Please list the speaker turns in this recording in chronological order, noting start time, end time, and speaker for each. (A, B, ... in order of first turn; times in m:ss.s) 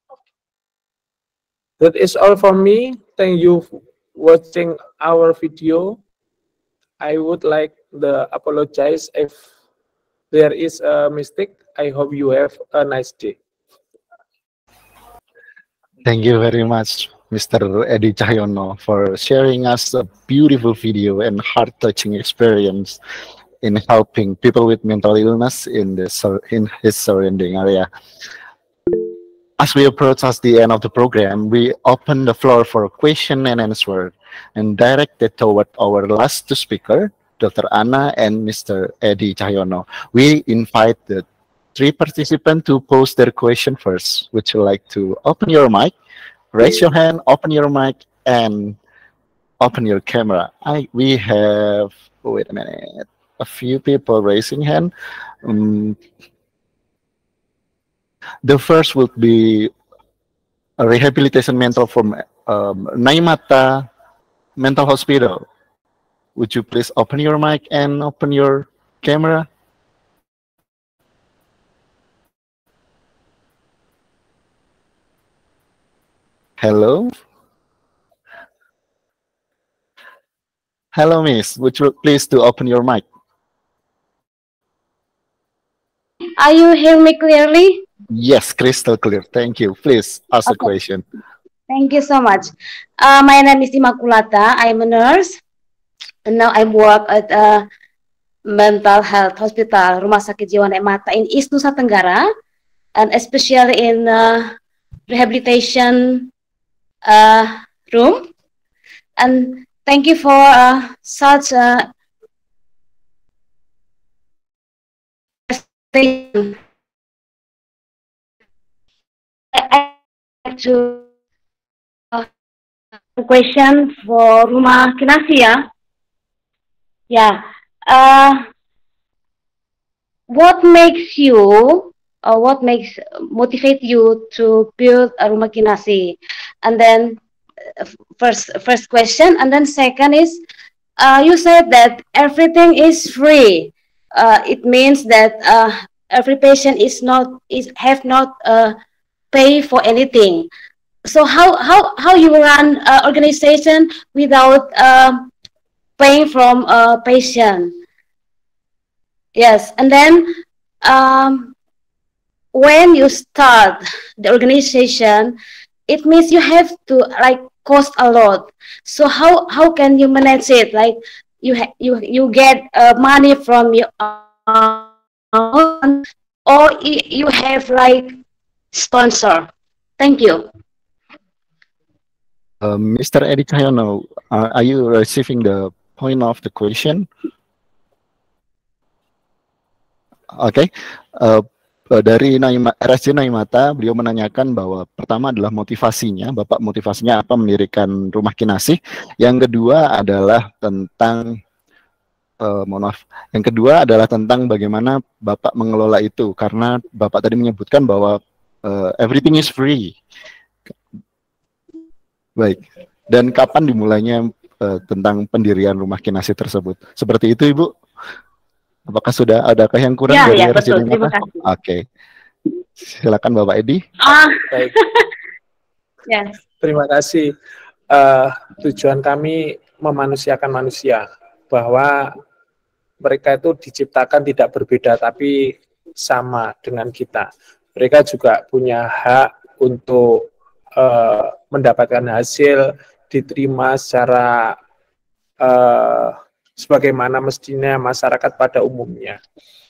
0:01.8-0:06.0 A
0:07.0-0:09.4 A
0:10.3-0:13.4 A
0:16.0-0:23.0 B
0:23.6-0:27.9 B
0:29.6-0:45.9 B
0:46.5-0:48.8 B
0:49.6-0:54.9 B
0:55.4-0:56.0 B
0:58.4-0:59.7 B
1:00.8-1:03.9 B
1:04.6-1:05.4 B
1:06.4-1:09.5 B
1:16.6-1:17.1 B
1:20.9-1:23.0 B
1:26.4-1:27.8 C
1:28.1-1:31.0 B
1:31.7-1:35.3 C
1:36.2-1:37.6 C
1:38.5-1:42.3 C
1:43.0-1:44.5 C
1:45.1-1:46.3 C
1:47.0-1:48.3 C
1:49.2-1:51.9 C
1:55.5-1:56.6 C
1:59.5-2:01.0 C
2:03.2-2:05.7 C
2:07.1-2:08.4 C
2:10.3-2:17.2 C
2:18.2-2:20.4 C
2:21.0-2:28.8 C
2:29.3-2:30.5 C
2:31.0-2:35.3 C
2:36.0-2:37.8 C
2:39.4-2:40.3 C
2:40.8-2:41.5 C
2:42.5-2:45.4 C
2:45.9-2:58.2 C
2:58.7-2:59.5 C
3:00.0-3:00.5 C
3:02.6-3:07.1 B
3:10.4-3:21.4 B
3:22.4-3:30.0 B
3:32.4-3:37.7 B
3:38.9-3:41.8 B
3:40.1-3:41.4 C
3:42.8-3:43.8 B
3:44.0-3:45.0 C
3:46.1-3:46.3 C
3:46.6-3:47.3 A
3:47.9-3:52.1 A
3:53.0-4:00.2 A
4:00.8-4:04.5 A
4:05.4-4:09.2 A